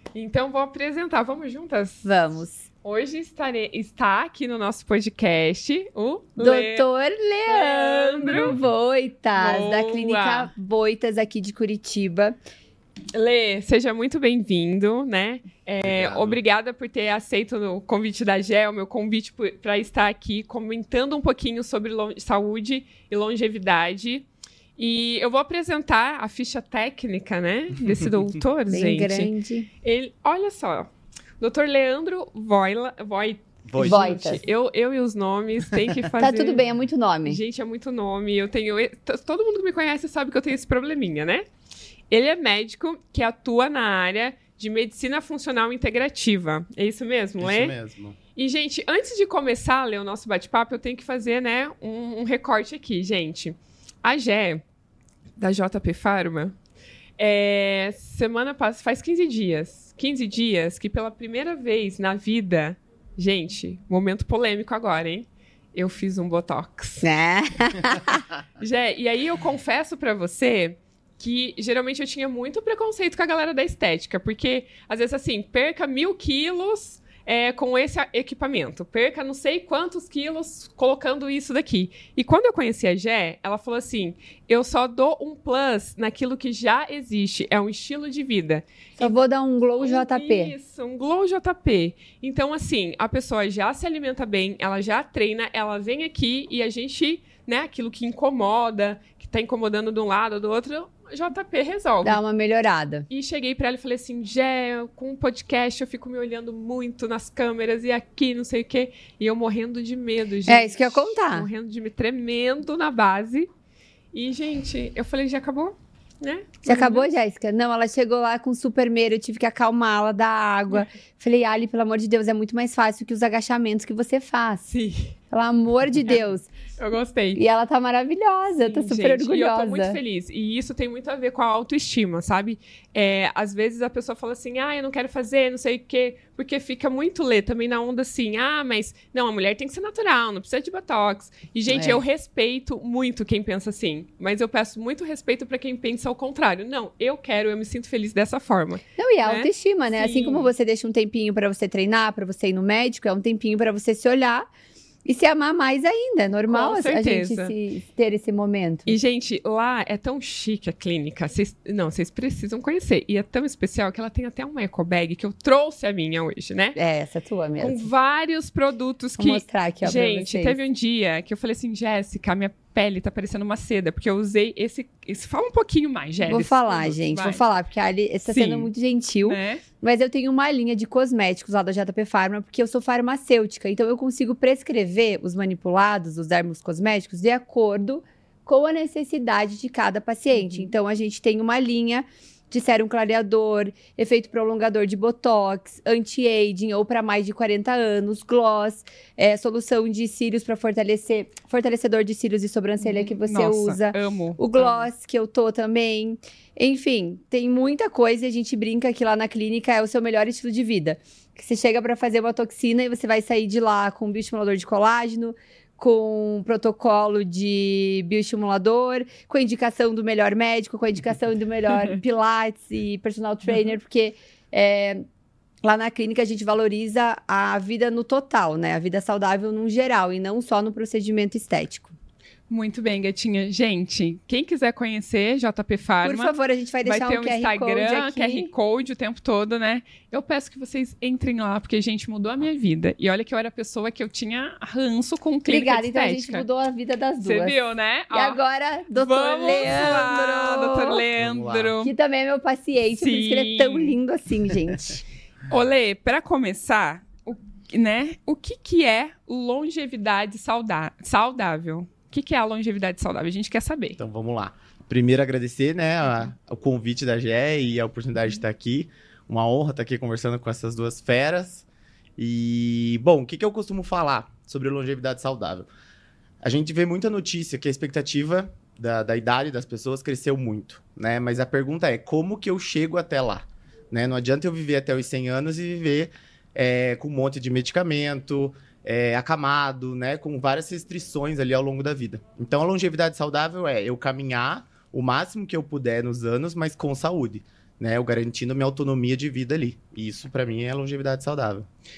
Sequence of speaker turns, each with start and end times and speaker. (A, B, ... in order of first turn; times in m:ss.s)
0:00.1-0:02.1 A
0:02.0-0:02.6 B
0:02.8-0:06.9 A
0:06.4-0:12.4 B
0:07.5-0:08.5 A
0:09.4-0:10.5 A
0:13.1-0:24.2 A
0:15.8-0:16.4 C
0:24.8-0:29.3 A
0:28.7-0:29.7 B
0:29.8-0:30.9 A
0:31.4-0:36.6 A
0:33.7-0:34.2 C
0:33.8-0:34.4 B
0:36.2-0:37.4 B
0:37.2-0:41.4 A
0:42.1-0:47.7 A
0:47.4-0:48.2 C
0:48.4-0:54.6 A
0:55.4-0:56.6 A
0:57.2-1:07.0 A
1:07.0-1:08.2 B
1:08.6-1:29.2 A
1:29.0-1:30.5 B
1:29.8-1:42.2 A
1:42.0-1:43.1 B
1:43.1-1:53.5 A
1:50.5-1:51.5 B
1:54.1-1:57.1 A
1:56.6-2:04.6 B
2:04.7-2:05.1 A
2:05.3-2:06.5 B
2:06.8-2:07.4 A
2:07.3-2:10.0 B
2:08.6-2:30.5 A
2:21.7-2:22.0 B
2:29.0-2:34.5 B
2:35.0-2:39.0 B
2:36.5-2:37.5 A
2:38.8-2:46.8 A
2:46.8-2:47.8 B
2:47.6-2:57.4 A
2:49.2-2:50.6 B
2:56.2-3:45.0 B
2:58.3-2:58.7 A
2:59.2-2:59.6 A
3:10.3-3:10.7 A
3:22.8-3:24.9 A
3:45.6-3:51.9 B
3:52.5-3:56.3 A
3:56.0-3:58.5 B
3:56.8-4:06.4 A
4:05.4-4:11.0 B
4:07.2-4:08.4 A
4:08.9-4:11.9 A
4:11.2-4:11.7 C
4:11.8-4:15.0 B
4:13.0-4:14.0 A
4:15.5-4:24.0 A
4:24.0-4:31.6 C
4:32.2-4:35.7 C
4:36.4-5:01.7 C